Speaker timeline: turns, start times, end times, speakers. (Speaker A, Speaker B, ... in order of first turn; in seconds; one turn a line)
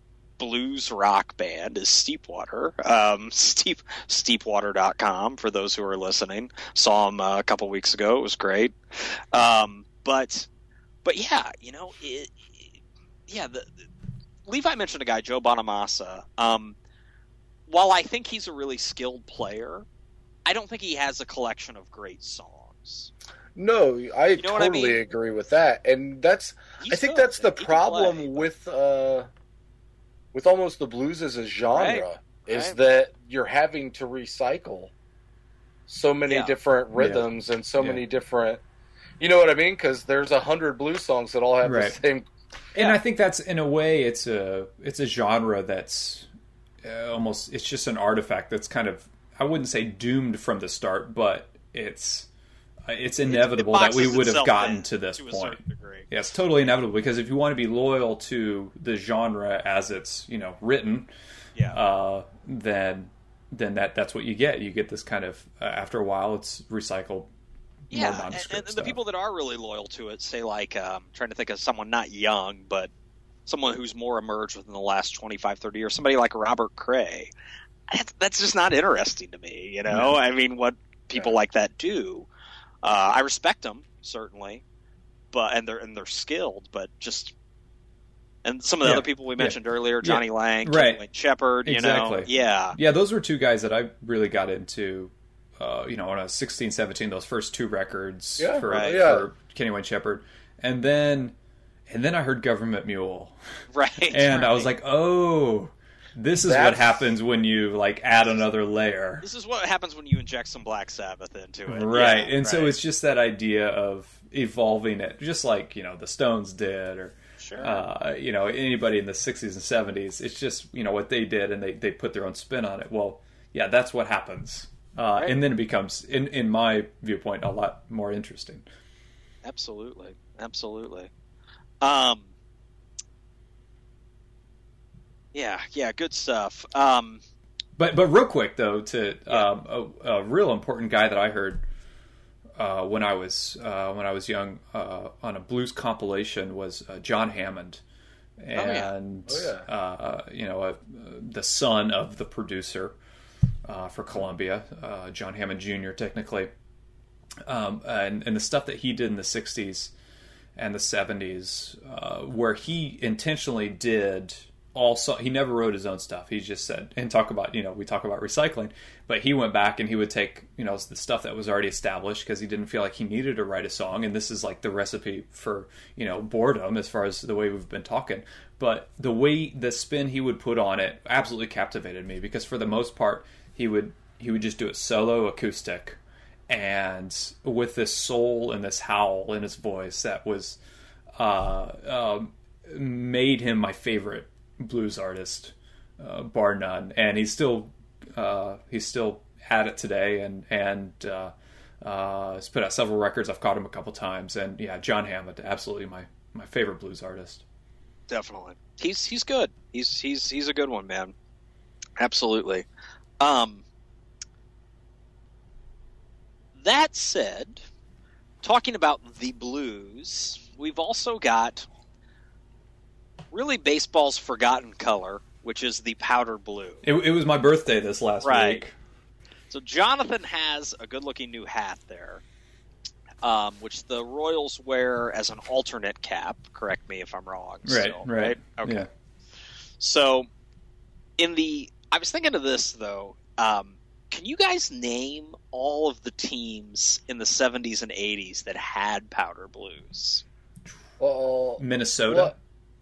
Speaker A: 0.4-10.5
Speaker A: 11.0-13.8
Speaker A: 14.4-16.8
Speaker A: 17.7-19.9
Speaker A: 20.4-23.1
Speaker B: 23.6-29.3
Speaker A: 24.4-25.0
Speaker A: 26.8-28.5
Speaker B: 30.3-34.9
Speaker A: 31.7-32.8
Speaker B: 35.9-38.6
Speaker A: 36.3-36.5
Speaker C: 36.9-37.2
Speaker B: 39.2-42.2
Speaker C: 41.6-42.0
Speaker C: 42.8-46.3
Speaker C: 46.8-52.3
Speaker C: 52.9-61.1
Speaker A: 53.2-56.1
Speaker C: 61.7-67.3
Speaker C: 67.9-69.0
Speaker A: 67.9-72.9
Speaker A: 73.5-77.3
Speaker A: 77.9-82.3
Speaker C: 79.9-80.2
Speaker A: 82.8-84.6
Speaker A: 85.3-87.3
Speaker A: 88.4-92.8
Speaker C: 88.8-91.0
Speaker C: 91.6-101.3
Speaker B: 98.4-99.2
Speaker A: 98.7-99.0
Speaker C: 101.9-103.3
Speaker A: 103.7-104.7
Speaker C: 104.1-109.2
Speaker B: 106.4-107.1
Speaker A: 109.2-112.7
Speaker C: 111.7-128.7
Speaker A: 117.4-117.8
Speaker A: 129.4-131.1
Speaker A: 131.8-132.3
Speaker A: 135.3-137.2
Speaker C: 137.8-141.6
Speaker C: 142.6-147.8
Speaker C: 148.4-152.9
Speaker A: 148.5-148.9
Speaker B: 149.3-149.7
Speaker C: 153.6-156.5
Speaker C: 157.4-159.9
Speaker C: 160.6-190.6
Speaker C: 191.2-207.4
Speaker A: 208.1-211.1
Speaker A: 212.0-212.7
Speaker A: 213.2-213.6
Speaker A: 216.6-217.6
Speaker A: 218.4-221.7
Speaker A: 223.3-226.8
Speaker C: 226.8-228.7
Speaker A: 228.2-228.6
Speaker A: 229.5-232.2
Speaker A: 233.2-238.9
Speaker C: 237.6-238.9
Speaker A: 239.8-240.3
Speaker A: 241.2-250.2
Speaker B: 251.0-252.3
Speaker C: 251.6-252.3